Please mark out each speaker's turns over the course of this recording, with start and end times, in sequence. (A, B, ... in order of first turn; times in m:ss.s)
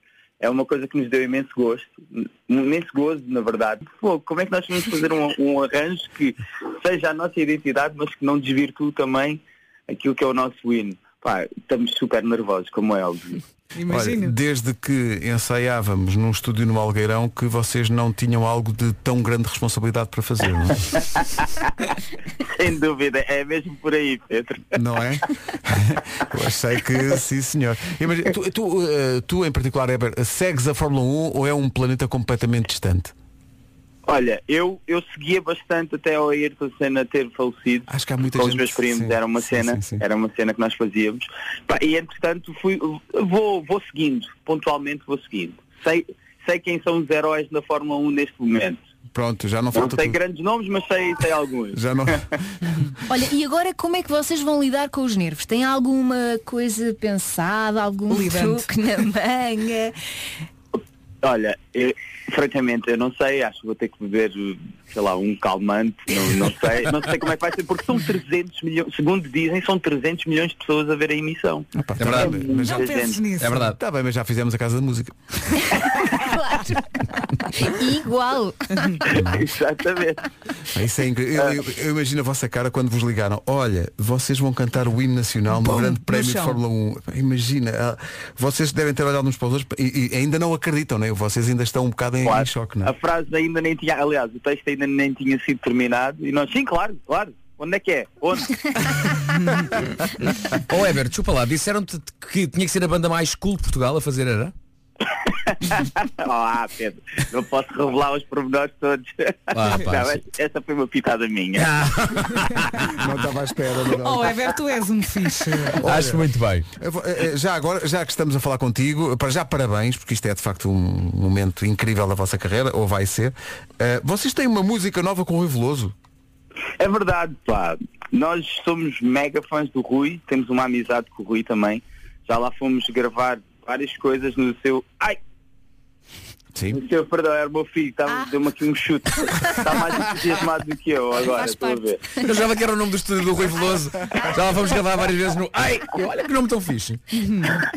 0:00.4-0:13.4 A
0:13.8-0:14.3 B
0:13.9-0:20.9 C
0:22.6-0:24.6 A
0:24.7-0:33.1 C
0:34.1-0:48.8 A
0:37.9-0:40.0 C
0:49.1-0:50.2 C
0:49.7-0:51.8 A
0:51.7-0:52.7 C
0:53.1-1:00.0 D
0:58.1-0:58.7 B
1:01.2-1:13.3 A
1:11.7-1:12.9 C
1:12.0-1:12.4 E
1:12.4-1:13.7 B
1:13.4-1:13.8 E
1:13.5-1:15.2 C
1:16.0-1:16.8 D
1:17.4-1:19.0 D
1:19.1-1:19.4 C
1:19.2-1:20.2 A
1:20.7-1:32.9 C
1:25.6-1:26.6 B
1:32.2-1:38.5 A
1:40.7-1:44.5 E
1:45.6-1:51.7 A
1:49.5-1:50.2 E
1:51.6-1:53.1 E
1:52.9-1:54.4 C
1:53.9-1:55.8 B
1:55.8-1:56.6 E
1:55.8-1:56.2 C
1:56.8-2:05.9 C
2:06.8-2:15.2 A
2:16.7-2:22.0 A
2:21.2-2:22.2 D
2:22.2-2:27.0 E
2:27.2-2:27.5 B